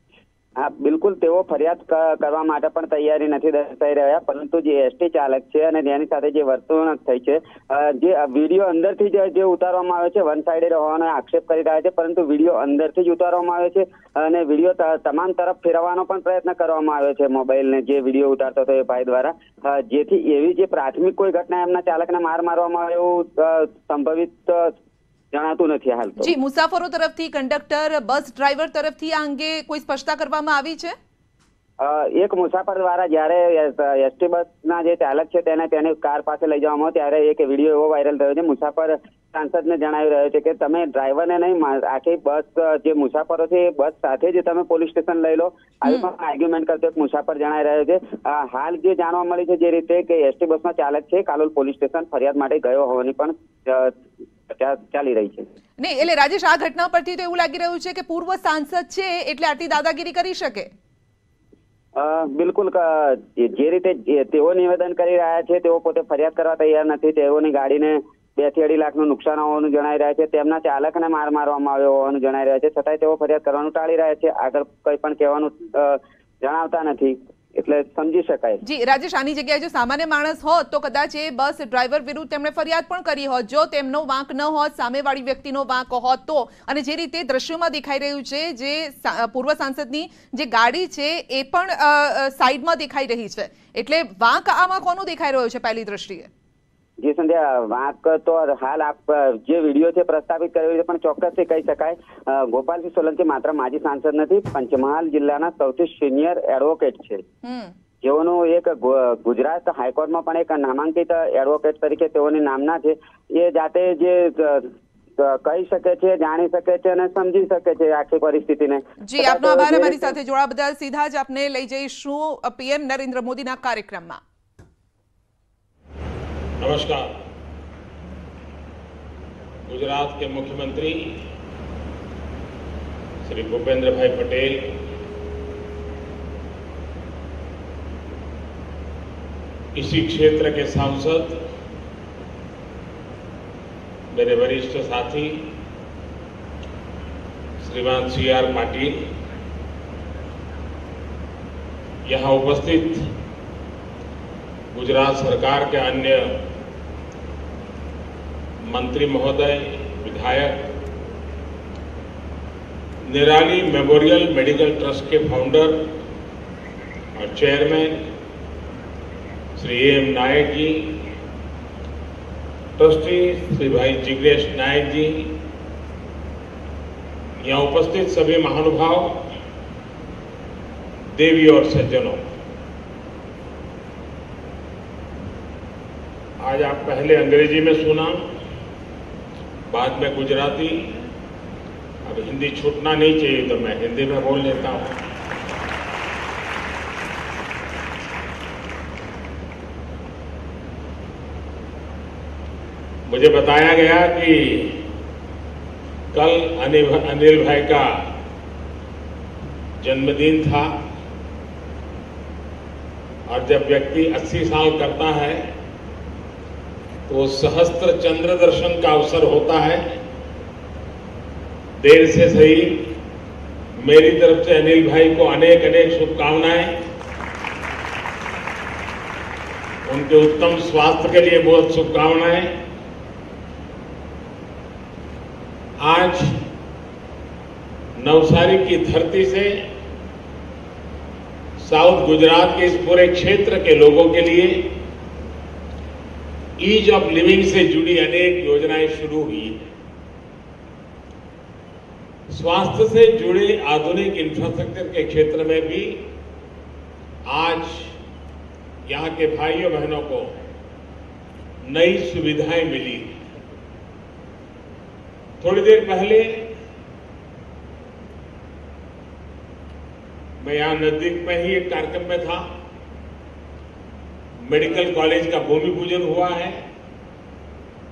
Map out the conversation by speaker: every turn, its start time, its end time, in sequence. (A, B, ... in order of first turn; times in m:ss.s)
0:00.6-0:24.7 A
0:25.3-0:26.3 A
0:26.2-0:31.0 B
0:31.8-0:53.9 A
0:54.5-0:55.5 A
0:55.8-1:00.7 B
1:02.0-1:18.6 A
1:18.6-1:36.3 B
1:37.0-1:47.2 A
1:47.4-1:47.7 B
1:48.0-2:00.1 A
1:59.0-2:04.2 B
2:06.6-2:07.2 C
2:09.7-2:11.2 C
2:13.2-2:14.7 C
2:19.8-2:21.4 C
2:24.1-2:25.5 C
2:27.6-2:29.0 C
2:32.1-2:33.1 C
2:34.7-2:36.3 C
2:38.6-2:40.7 C
2:43.0-2:45.8 C
2:47.2-2:48.0 C
2:49.6-2:51.0 C
2:52.8-2:55.3 C
2:57.4-2:59.2 C
3:01.1-3:02.2 C
3:06.4-3:08.3 C
3:09.7-3:10.9 C
3:12.0-3:15.0 C
3:23.1-3:24.8 C
3:26.1-3:27.9 C
3:29.8-3:30.7 C
3:33.3-3:35.5 C
3:37.1-3:40.0 C
3:41.8-3:42.9 C
3:43.8-3:46.7 C
3:49.9-3:52.6 C
3:55.8-3:56.4 C
3:58.0-3:59.5 C
4:01.6-4:04.6 C
4:06.6-4:09.7 C
4:12.3-4:16.0 C
4:17.3-4:17.9 C
4:18.9-4:20.4 C
4:21.6-4:23.2 C
4:25.4-4:26.3 C
4:30.4-4:32.4 C
4:34.4-4:36.6 C